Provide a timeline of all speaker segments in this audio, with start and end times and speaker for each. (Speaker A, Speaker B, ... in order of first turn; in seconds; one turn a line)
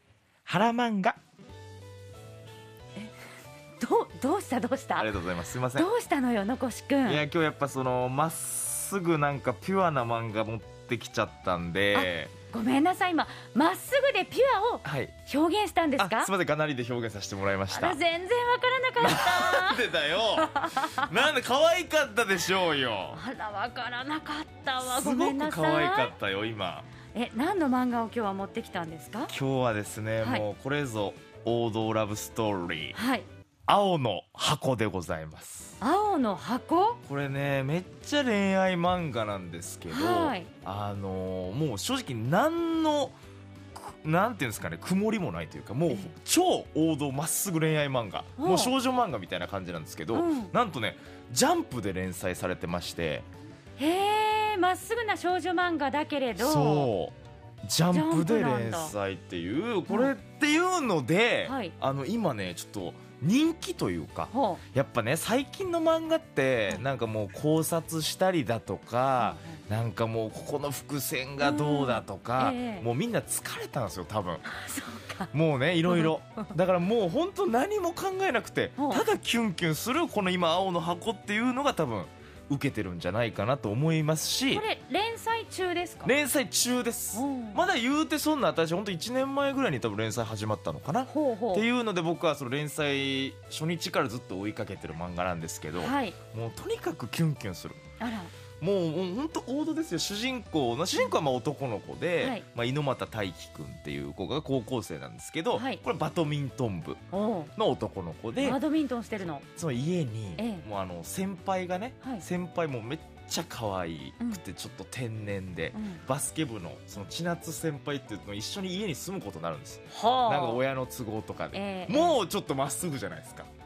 Speaker A: 0.5-1.2
Speaker B: 3.8-5.2
Speaker A: 5.0-5.9
Speaker B: 5.7-7.2
Speaker A: 7.0-12.3
Speaker B: 11.9-16.3
Speaker A: 14.8-15.1
Speaker A: 16.0-18.0
Speaker B: 17.7-21.3
Speaker A: 19.0-23.2
Speaker B: 23.1-26.1
Speaker A: 24.8-26.9
Speaker B: 27.1-29.3
Speaker A: 29.3-33.0
Speaker B: 30.2-30.4
Speaker B: 32.9-33.3
Speaker A: 33.7-35.8
Speaker B: 35.8-37.0
Speaker A: 37.0-43.1
Speaker B: 39.9-40.5
Speaker A: 43.8-53.2
Speaker B: 48.4-48.7
Speaker B: 50.1-50.5
Speaker B: 53.8-56.9
Speaker A: 56.4-57.1
Speaker A: 57.6-74.4
Speaker B: 57.9-58.9
Speaker B: 61.5-61.7
Speaker B: 64.3-64.6
Speaker B: 69.2-69.6
Speaker B: 71.4-72.8
Speaker B: 74.4-75.3
Speaker A: 75.3-84.6
Speaker B: 75.8-76.1
Speaker B: 78.8-79.0
Speaker B: 84.5-86.1
Speaker A: 86.0-97.8
Speaker B: 87.1-87.6
Speaker B: 91.1-91.7
Speaker B: 95.8-96.2
Speaker B: 98.0-98.3
Speaker A: 98.6-107.0
Speaker B: 105.5-105.8
Speaker B: 107.1-107.5
Speaker A: 107.5-108.6
Speaker B: 108.4-109.4
Speaker A: 109.5-123.5
Speaker B: 110.4-110.7
Speaker B: 115.7-116.0
Speaker B: 119.9-120.6
Speaker B: 121.5-122.2